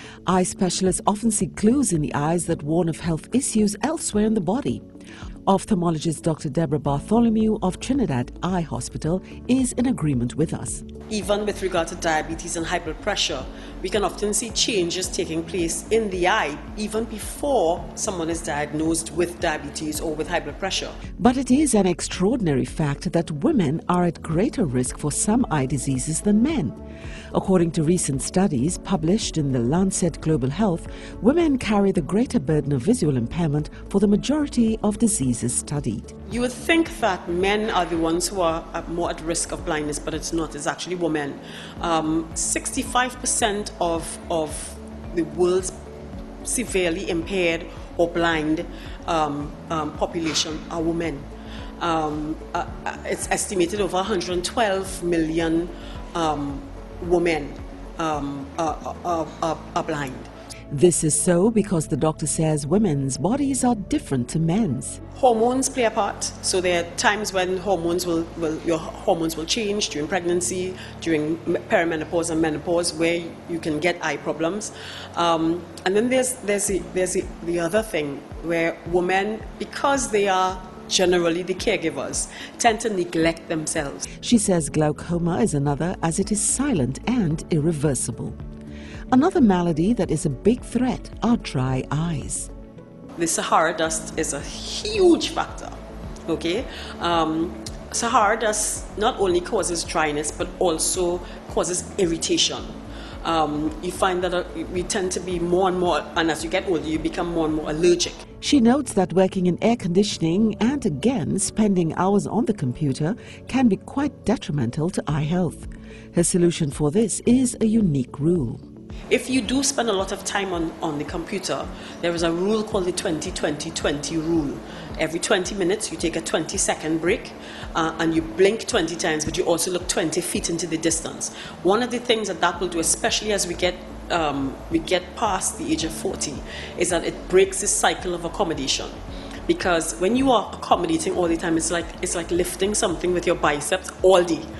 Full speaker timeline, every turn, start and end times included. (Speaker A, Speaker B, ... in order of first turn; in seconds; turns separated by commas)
Speaker A: 0.2-4.8, Speaker A: 5.5-10.8, Speaker B: 11.1-21.0, Speaker A: 21.2-26.8, Speaker A: 27.3-36.1, Speaker B: 36.3-45.7, Speaker B: 46.4-51.2, Speaker B: 51.8-60.3, Speaker A: 60.7-65.0, Speaker B: 65.1-84.0, Speaker A: 84.2-88.3, Speaker A: 89.1-92.5, Speaker B: 93.2-95.7, Speaker B: 96.2-102.7, Speaker B: 103.2-108.2, Speaker A: 108.4-118.6, Speaker B: 119.1-138.9, Speaker B: 139.5-144.4